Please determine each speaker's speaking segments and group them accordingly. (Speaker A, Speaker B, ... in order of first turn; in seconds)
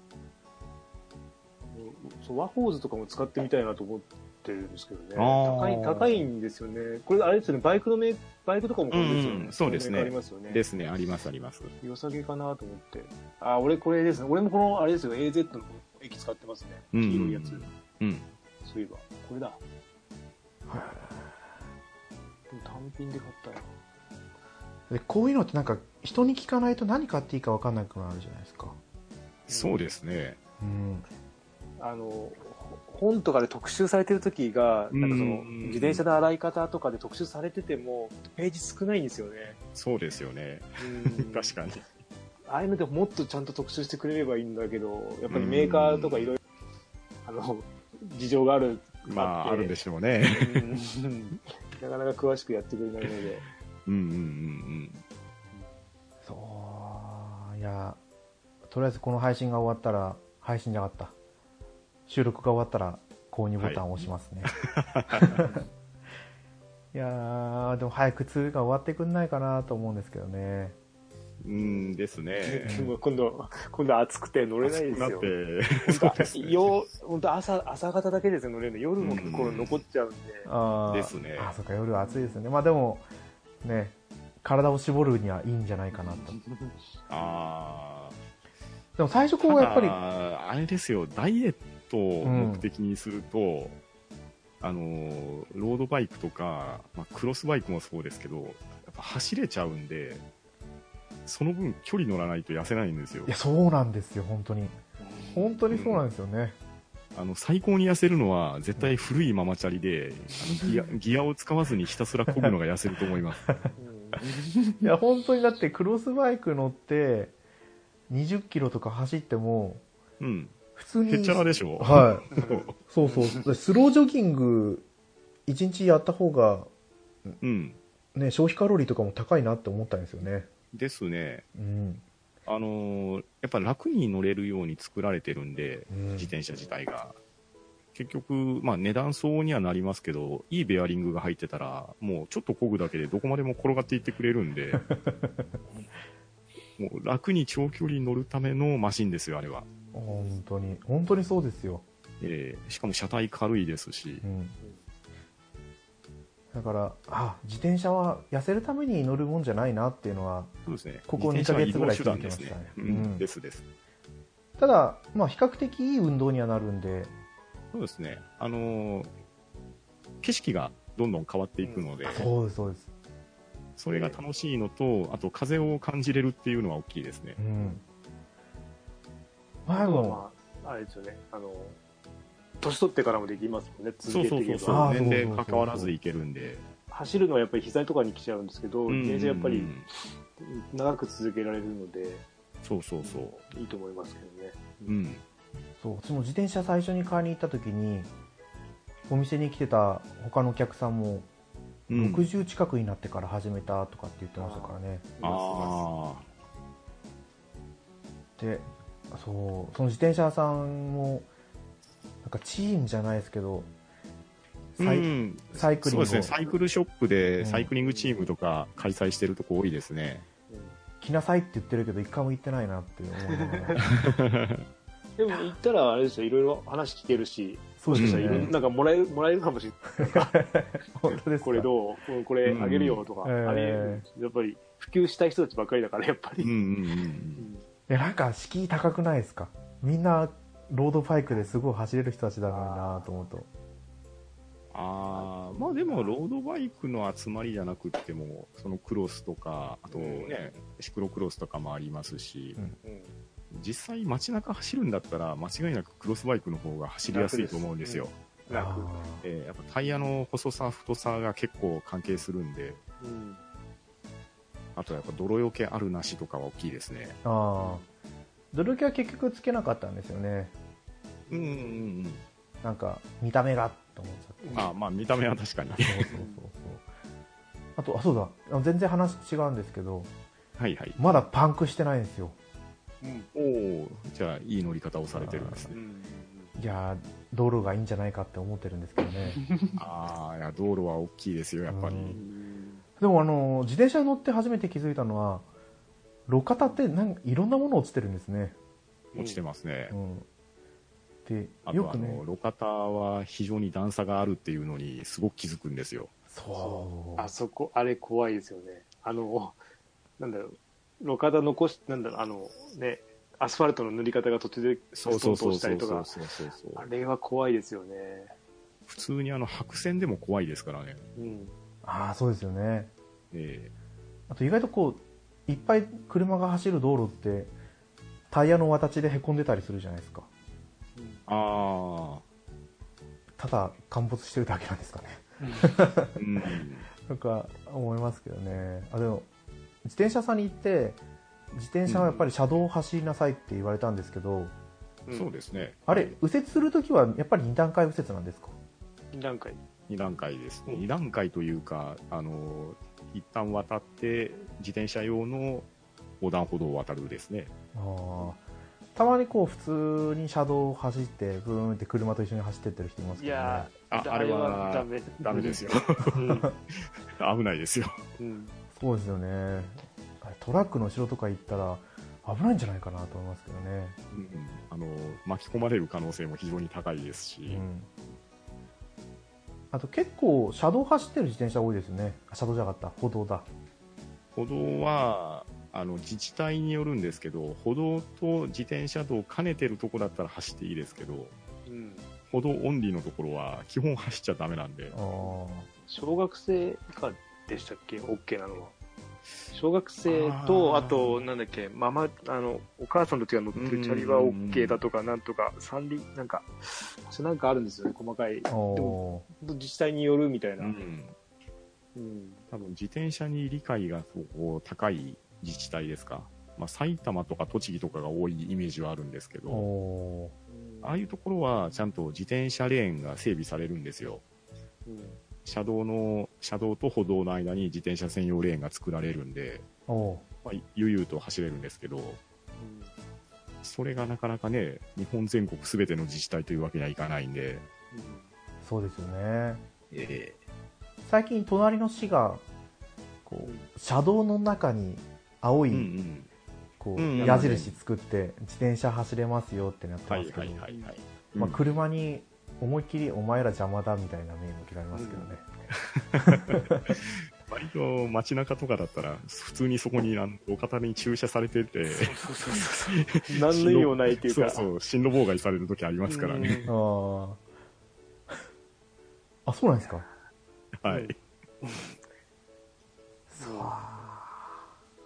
Speaker A: 1.7-10.6, 11.8-17.6, 18.6-19.6, 22.5-23.7, 29.5-29.8, 31.8-39.6, 40.8-41.5, 42.5-46.4, 47.2-49.8, 50.3-53.4, 71.5-75.3, 75.8-80.5, 81.9-82.4, 85.9-87.5, 105.0-105.6, 113.8-114.4, 122.3-123.4, 150.1-150.4, 171.6-171.9, 173.9-174.2, 179.7-181.8, 182.6-184.9, 186.9-189.7, 190.4-192.2, 193.0-194.9, 204.4-205.8, 217.8-218.3, 220.5-220.8, 223.3-223.8, 225.2-230.4, 231.4-236.6, 237.4-237.7, 242.5-243.2, 245.1-246.2, 249.9-250.4, 252.8-253.1, 257.1-259.0, 263.0-263.4, 267.6-267.9, 271.3-271.8, 274.4-274.7, 276.1-276.4, 283.0-283.3, 285.7-286.5, 289.4-289.8, 292.1-292.8, 299.1-299.4, 306.6-309.6, 310.2-316.1, 316.7-318.3, 321.1-321.5, 330.9-331.2, 335.4-335.7, 349.1-349.6, 363.2-366.5, 368.2-368.5, 391.6-392.1, 395.2-398.7, 399.5-410.8, 411.9-412.4, 420.5-421.1, 424.9-425.2, 432.6-432.9, 437.9-438.3, 443.4-443.7, 447.2-447.6, 454.9-455.3, 461.9-464.7, 466.1-466.7, 470.9-471.9, 473.4-473.8
Speaker B: 5.2-6.3, 8.9-11.7, 16.9-18.3, 29.5-30.4, 34.9-36.0, 39.7-41.8, 45.3-46.3, 49.0-50.7, 53.9-55.0, 63.6-63.8, 64.5-65.3, 71.4-72.7, 74.6-76.7, 79.0-79.8, 80.9-81.5, 87.1-88.2, 89.4-93.8, 94.6-100.2, 101.2-103.3, 105.7-106.0, 107.1-113.5, 120.2-122.7, 127.4-127.8, 130.7-131.4, 132.4-137.2, 137.9-144.8, 146.8-149.7, 152.2-154.2, 160.7-163.6, 167.7-169.1, 170.2-172.3, 173.8-177.4, 184.1-186.7, 188.9-189.8, 192.6-193.4, 194.9-195.2, 201.9-202.3, 205.2-206.2, 214.8-220.2, 223.8-224.6, 227.9-228.5, 232.4-233.0, 236.4-237.5, 244.7-252.6, 253.5-258.1, 259.2-262.8, 264.8-267.2, 271.3-272.2, 274.5-276.1, 280.6-281.0, 283.3-285.8, 289.8-292.2, 299.1-299.9, 301.6-306.1, 314.9-316.9, 318.9-321.1, 323.3-323.7, 331.3-332.2, 336.1-336.9, 341.9-342.1, 345.1-346.1, 349.9-355.7, 356.2-357.5, 363.9-368.0, 374.1-377.6, 384.4-391.3, 392.3-394.9, 400.1-401.2, 403.5-404.8, 410.6-411.1, 412.5-419.7, 420.8-424.2, 425.4-429.6, 430.4-432.2, 433.6-437.6, 439.9-440.4, 445.7-446.3, 447.0-447.8, 450.1-451.6, 455.7-466.6, 470.8-471.1
Speaker C: 20.7-21.4, 24.9-28.8, 30.6-31.1, 56.2-58.0, 58.6-61.1, 62.1-64.5, 65.2-65.5, 66.9-70.8, 72.7-72.9, 80.5-83.0, 83.6-86.3, 89.0-90.0, 92.2-92.7, 103.2-104.8, 105.3-106.6, 114.8-117.3, 118.1-119.8, 120.8-124.8, 125.5-126.7, 128.1-130.5, 131.5-132.0, 135.9-136.3, 144.8-145.5, 149.9-151.8, 154.2-154.6, 156.5-160.5, 161.1-163.2, 164.6-167.1, 172.1-172.9, 177.4-177.8, 179.7-180.2, 184.7-185.9, 195.8-198.1, 199.1-201.3, 201.9-205.1, 208.4-211.3, 212.2-213.7, 214.8-216.3, 217.4-217.7, 221.0-223.8, 227.8-228.5, 230.0-231.7, 233.2-234.0, 237.9-243.5, 258.5-259.2, 267.2-267.8, 268.5-270.5, 272.6-274.6, 275.8-276.8, 277.8-280.1, 281.0-282.4, 285.1-285.7, 286.6-289.4, 291.7-292.2, 293.0-295.5, 296.3-298.6, 299.9-300.2, 301.2-302.2, 306.3-307.3, 321.8-322.9, 324.3-327.5, 328.3-330.3, 333.4-336.2, 337.1-339.3, 339.8-341.0, 341.5-344.5, 345.9-348.5, 357.7-358.4, 358.9-363.7, 368.7-374.0, 377.5-377.9, 379.7-383.4, 394.9-395.7, 408.5-409.2, 419.5-420.3, 429.9-430.2, 438.6-439.6, 441.1-442.4, 443.2-445.9, 446.8-450.6, 451.4-455.4, 456.2-456.9, 466.7-467.4, 469.4-470.1, 473.3-474.6